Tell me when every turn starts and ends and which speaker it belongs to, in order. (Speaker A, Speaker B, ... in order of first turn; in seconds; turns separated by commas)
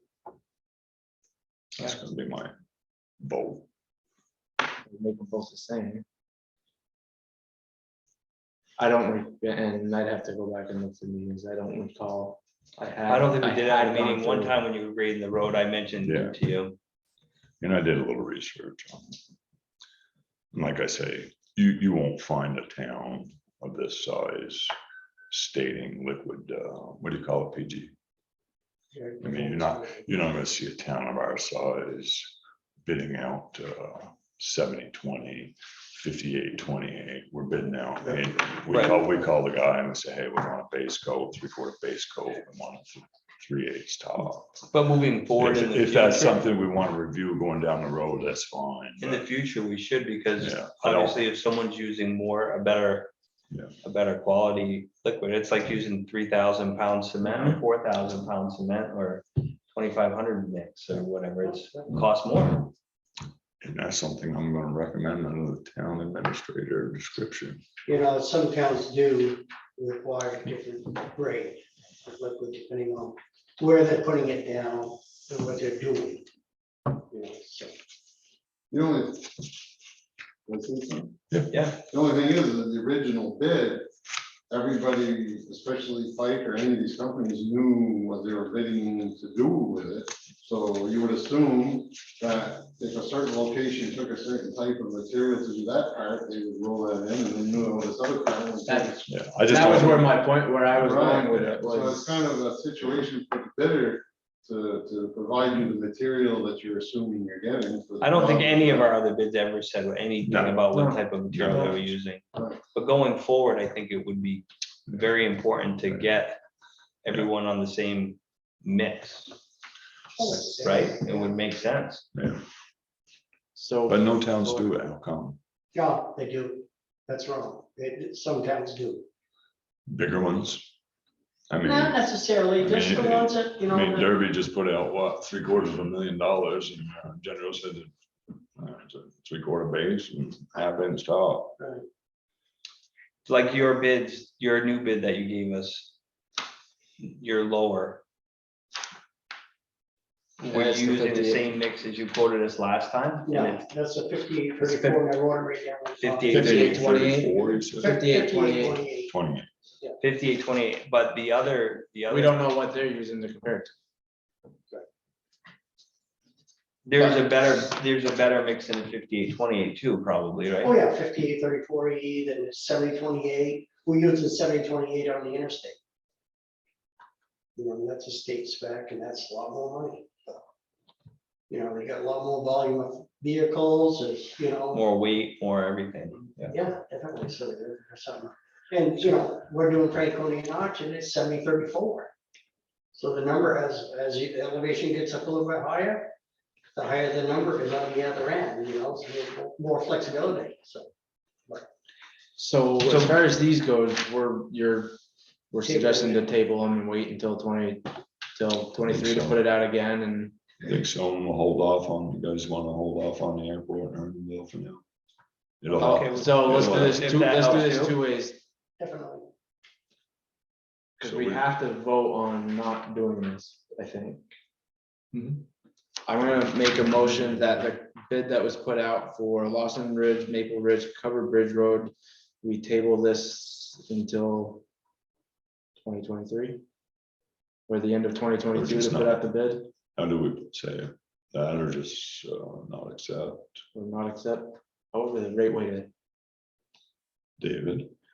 Speaker A: 1.8-2.5, Speaker A: 3.2-3.7, Speaker B: 4.9-6.0, Speaker B: 8.8-14.6, Speaker C: 13.1-16.8, Speaker A: 16.0-16.4, Speaker A: 17.6-19.1, Speaker A: 20.5-24.7, Speaker A: 25.3-27.9, Speaker D: 28.9-30.1, Speaker A: 29.2-32.3, Speaker A: 32.9-44.7, Speaker C: 38.7-39.0, Speaker C: 44.7-46.4, Speaker A: 45.4-49.3, Speaker C: 49.0-53.1, Speaker A: 50.4-51.2, Speaker C: 53.8-62.7, Speaker D: 61.4-61.9, Speaker A: 63.6-67.6, Speaker D: 67.9-76.3, Speaker D: 77.1-77.7, Speaker E: 78.7-79.4, Speaker E: 80.5-83.9, Speaker C: 81.5-81.8, Speaker E: 84.5-100.0, Speaker B: 98.7-102.1, Speaker A: 99.1-100.2, Speaker E: 100.7-108.9, Speaker C: 108.0-116.4, Speaker A: 110.2-110.7, Speaker B: 110.7-111.8, Speaker A: 111.3-111.8, Speaker C: 117.0-119.3, Speaker D: 120.2-121.4, Speaker C: 120.3-122.0, Speaker A: 122.1-122.4, Speaker B: 123.5-124.7, Speaker A: 123.9-125.4, Speaker D: 125.7-129.1, Speaker A: 129.9-130.7, Speaker A: 131.5-132.0, Speaker D: 131.6-134.1, Speaker A: 132.6-137.9, Speaker A: 138.6-141.6, Speaker D: 141.6-141.8, Speaker C: 143.3-145.9, Speaker C: 147.0-148.0, Speaker B: 150.4-151.5, Speaker C: 150.5-153.7, Speaker D: 153.3-156.9, Speaker C: 154.6-155.1, Speaker C: 156.0-157.1, Speaker B: 156.3-158.8, Speaker A: 156.3-157.9, Speaker D: 157.8-159.1, Speaker A: 159.1-159.5, Speaker C: 160.0-162.4, Speaker B: 162.1-163.7, Speaker C: 166.9-170.7, Speaker B: 167.0-167.3, Speaker D: 170.6-175.8, Speaker D: 177.6-180.4, Speaker D: 181.5-184.8, Speaker C: 184.7-186.5, Speaker D: 186.5-192.1, Speaker D: 192.9-196.1, Speaker D: 196.8-200.9, Speaker B: 202.4-205.0, Speaker B: 205.5-210.4, Speaker D: 205.7-206.3, Speaker A: 208.8-209.5, Speaker A: 210.6-214.8, Speaker A: 215.6-217.1, Speaker C: 215.7-218.0, Speaker B: 215.8-218.4, Speaker D: 218.8-219.3, Speaker B: 221.0-224.3, Speaker A: 221.0-221.5, Speaker B: 226.1-234.6, Speaker B: 235.8-236.6, Speaker B: 237.7-239.7, Speaker A: 238.5-239.3, Speaker A: 239.9-243.6, Speaker B: 243.7-245.9, Speaker A: 247.4-247.9